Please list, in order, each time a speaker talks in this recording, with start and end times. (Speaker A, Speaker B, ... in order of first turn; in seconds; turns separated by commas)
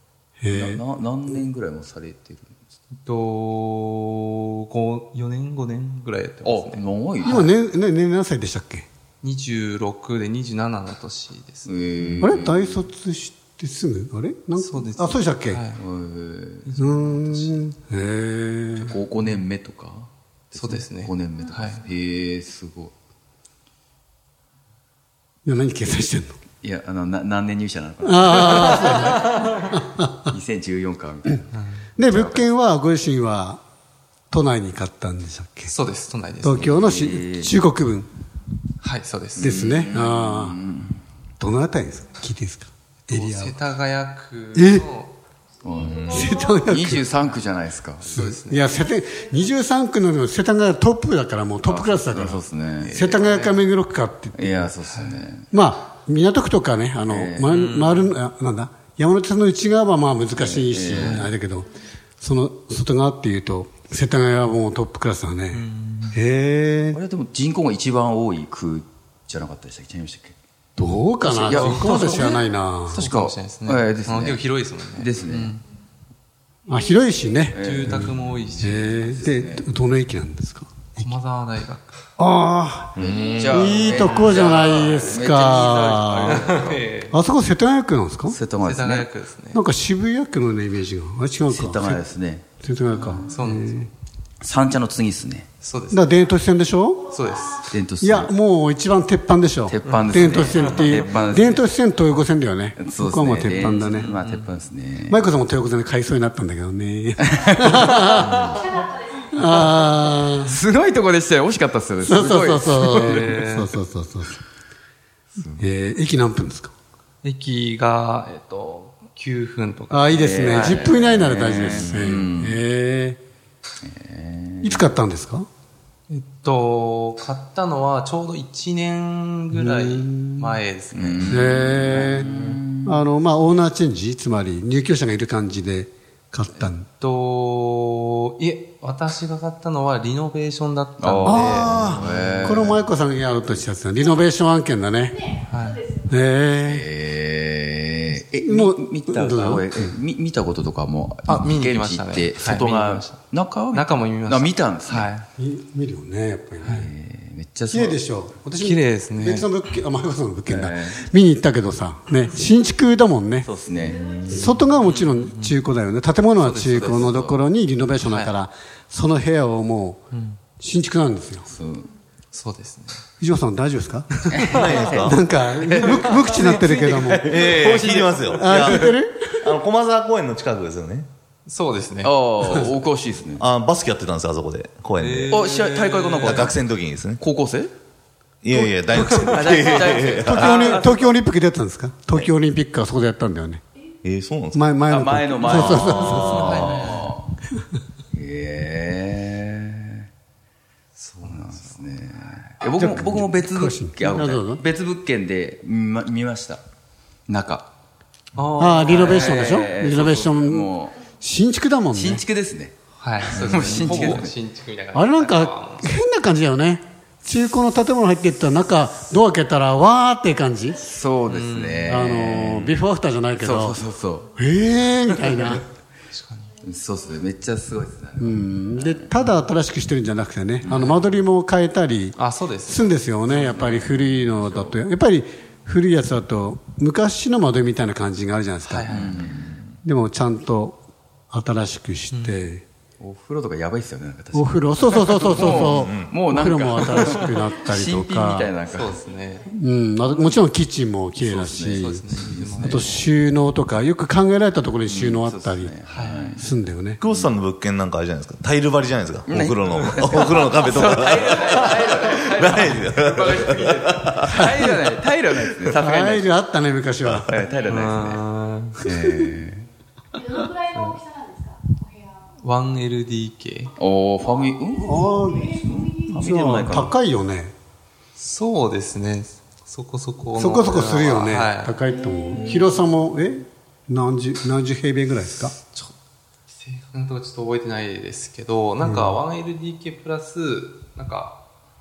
Speaker A: 0.4-0.8, Speaker B: 0.5-2.6, Speaker C: 2.9-6.8, Speaker B: 6.4-7.5, Speaker A: 7.2-8.9, Speaker C: 9.2-12.3, Speaker B: 11.6-12.8, Speaker A: 12.2-15.6, Speaker C: 14.6-15.8, Speaker B: 15.8-16.7, Speaker C: 16.6-17.6, Speaker A: 16.8-19.0, Speaker B: 18.7-22.9, Speaker C: 20.5-21.8, Speaker A: 25.4-26.3, Speaker B: 26.6-29.2, Speaker A: 28.0-30.2, Speaker B: 30.3-31.5, Speaker C: 31.5-31.9, Speaker A: 32.0-33.6, Speaker B: 32.0-32.5, Speaker A: 34.3-35.7, Speaker C: 35.7-36.7, Speaker A: 36.4-38.1, Speaker B: 36.6-37.6, Speaker C: 38.8-39.6, Speaker A: 39.4-40.6, Speaker B: 39.4-41.0, Speaker A: 41.4-43.6, Speaker C: 43.1-45.1, Speaker A: 44.5-44.9, Speaker B: 45.6-48.1, Speaker D: 45.9-46.3, Speaker A: 46.1-47.0, Speaker A: 48.0-54.7, Speaker C: 48.1-48.8, Speaker B: 51.6-53.4, Speaker C: 53.2-53.6, Speaker B: 54.3-55.5, Speaker C: 54.9-55.2, Speaker A: 55.5-61.7, Speaker B: 57.1-57.6, Speaker C: 57.5-58.1, Speaker B: 60.3-61.2, Speaker C: 61.0-61.3, Speaker A: 62.2-67.0, Speaker C: 65.5-66.2, Speaker B: 66.9-70.3, Speaker A: 70.8-73.0, Speaker C: 71.3-75.6, Speaker B: 71.4-72.2, Speaker B: 72.9-74.4, Speaker B: 74.9-75.5, Speaker A: 76.7-81.1, Speaker B: 77.5-79.7, Speaker C: 77.6-79.0, Speaker C: 81.0-82.0, Speaker A: 82.2-86.4, Speaker D: 83.0-84.0, Speaker B: 83.0-86.8, Speaker C: 84.2-84.6, Speaker C: 86.3-87.2, Speaker A: 87.1-88.4, Speaker B: 88.3-89.1, Speaker C: 88.6-89.6, Speaker A: 89.5-92.0, Speaker B: 91.5-92.5, Speaker A: 92.6-93.9, Speaker C: 93.2-93.8, Speaker B: 94.4-95.5, Speaker C: 95.6-96.1, Speaker A: 95.9-97.1, Speaker C: 97.1-97.7, Speaker B: 97.7-98.3, Speaker A: 98.0-104.1, Speaker B: 99.7-101.6, Speaker C: 99.8-100.9, Speaker B: 102.8-105.2, Speaker C: 103.8-104.6, Speaker A: 105.1-108.6, Speaker B: 107.2-108.7, Speaker A: 109.3-110.5, Speaker B: 110.4-113.3, Speaker A: 112.0-114.4, Speaker C: 112.9-113.7, Speaker B: 115.4-115.6, Speaker A: 115.6-116.7, Speaker C: 117.2-121.8, Speaker A: 119.9-123.2, Speaker B: 120.1-122.6, Speaker B: 123.8-124.9, Speaker A: 124.6-125.5, Speaker C: 126.1-132.4, Speaker A: 129.5-130.6, Speaker B: 130.9-133.0, Speaker A: 131.3-136.9, Speaker C: 137.0-142.3, Speaker B: 141.0-142.9, Speaker A: 141.2-145.3, Speaker C: 145.5-145.8, Speaker A: 146.1-146.9, Speaker B: 146.6-155.1, Speaker A: 148.3-150.0, Speaker C: 151.2-155.2, Speaker A: 155.4-156.9, Speaker C: 156.6-156.9, Speaker B: 156.7-158.0, Speaker A: 157.7-163.5, Speaker C: 158.6-159.5, Speaker B: 160.5-161.0, Speaker B: 163.4-164.0, Speaker D: 163.9-164.4, Speaker A: 164.3-170.0, Speaker C: 164.8-165.6, Speaker C: 166.4-167.1, Speaker B: 166.7-167.4, Speaker C: 168.0-168.3, Speaker C: 170.1-170.4, Speaker A: 170.6-171.5, Speaker B: 171.5-171.9, Speaker C: 172.3-173.0, Speaker A: 173.2-177.5, Speaker B: 174.3-179.0, Speaker D: 174.5-175.2, Speaker D: 177.2-181.1, Speaker A: 178.3-179.6, Speaker C: 181.4-182.2, Speaker B: 182.0-183.4, Speaker D: 183.4-185.3, Speaker C: 185.0-186.5, Speaker B: 185.3-186.6, Speaker D: 186.2-187.2, Speaker B: 187.2-187.7, Speaker D: 188.4-190.8, Speaker A: 188.5-193.6, Speaker B: 189.2-191.1, Speaker D: 194.0-194.7, Speaker A: 194.5-196.8, Speaker B: 194.9-197.4, Speaker D: 195.5-195.9, Speaker C: 195.5-197.1, Speaker D: 196.5-196.8, Speaker B: 198.1-200.1, Speaker C: 200.9-201.8, Speaker B: 201.2-206.6, Speaker A: 202.7-204.6, Speaker B: 207.3-207.7, Speaker C: 208.3-209.7, Speaker A: 208.6-212.2, Speaker B: 208.9-211.0, Speaker B: 211.9-214.3, Speaker C: 213.0-215.9, Speaker A: 213.5-214.1, Speaker A: 214.9-220.9, Speaker B: 220.8-222.8, Speaker C: 221.3-222.1, Speaker A: 221.8-223.8, Speaker B: 223.4-224.3, Speaker A: 224.3-225.6, Speaker C: 226.1-226.5, Speaker B: 226.6-229.1, Speaker A: 228.2-239.2, Speaker B: 230.6-231.0, Speaker C: 232.2-233.8, Speaker B: 233.4-234.8, Speaker C: 238.7-239.2, Speaker B: 238.9-239.5, Speaker A: 239.8-240.8, Speaker A: 241.3-242.6, Speaker C: 242.1-242.4, Speaker B: 243.0-249.0, Speaker A: 244.3-248.5, Speaker D: 245.7-246.1, Speaker C: 248.7-249.5, Speaker A: 249.5-252.0, Speaker B: 251.2-253.0, Speaker C: 251.7-253.1, Speaker A: 252.6-255.7, Speaker B: 254.8-256.5, Speaker C: 255.9-256.4, Speaker A: 256.4-257.0, Speaker D: 257.0-264.6, Speaker B: 259.2-266.3, Speaker A: 265.7-267.4, Speaker B: 267.3-268.2, Speaker C: 267.7-268.8, Speaker A: 268.8-269.3, Speaker B: 268.8-269.7, Speaker E: 270.2-272.1, Speaker C: 272.4-273.7, Speaker B: 273.8-276.9, Speaker A: 274.8-277.5, Speaker C: 278.1-281.8, Speaker A: 280.4-285.5, Speaker E: 282.0-282.6, Speaker C: 285.7-285.9, Speaker C: 286.5-291.4, Speaker A: 288.8-289.2